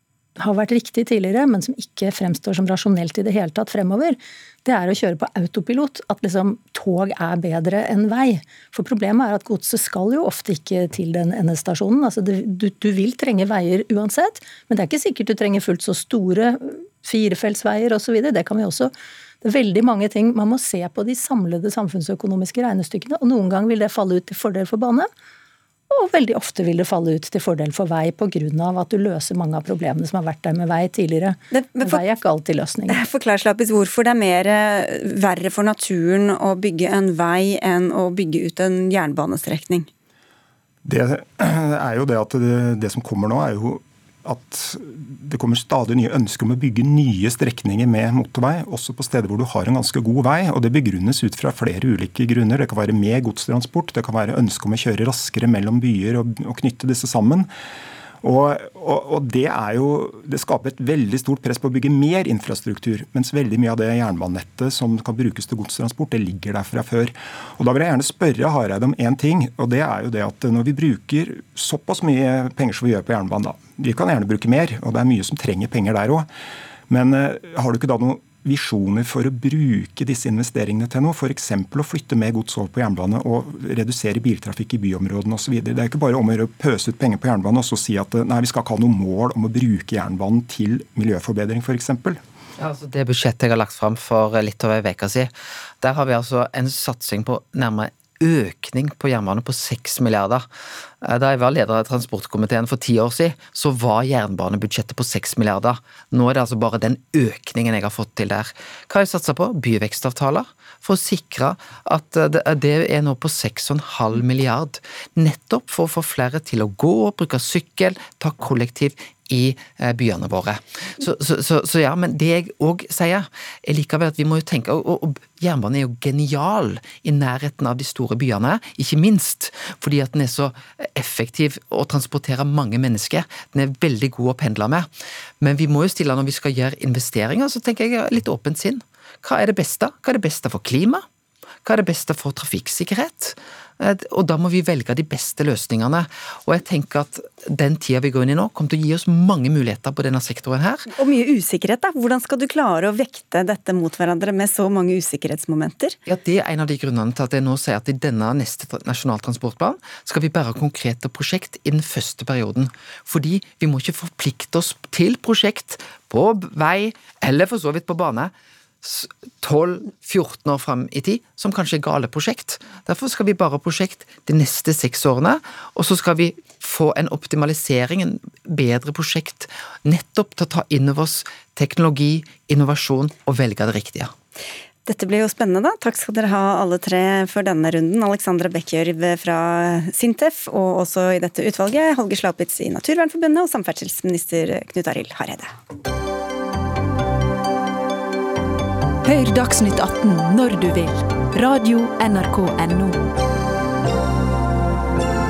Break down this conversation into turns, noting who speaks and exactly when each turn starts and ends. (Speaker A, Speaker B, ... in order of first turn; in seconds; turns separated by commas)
Speaker A: 0.4-25.1, Speaker A: 25.9-33.0, Speaker B: 31.5-32.0, Speaker B: 32.9-39.9, Speaker C: 40.9-57.5, Speaker C: 58.2-76.3, Speaker C: 76.9-92.2, Speaker D: 92.6-100.5, Speaker D: 101.0-134.9, Speaker D: 135.4-141.1, Speaker D: 141.7-150.9, Speaker B: 150.9-156.0, Speaker D: 156.1-184.1, Speaker B: 184.9-195.5, Speaker E: 199.0-203.0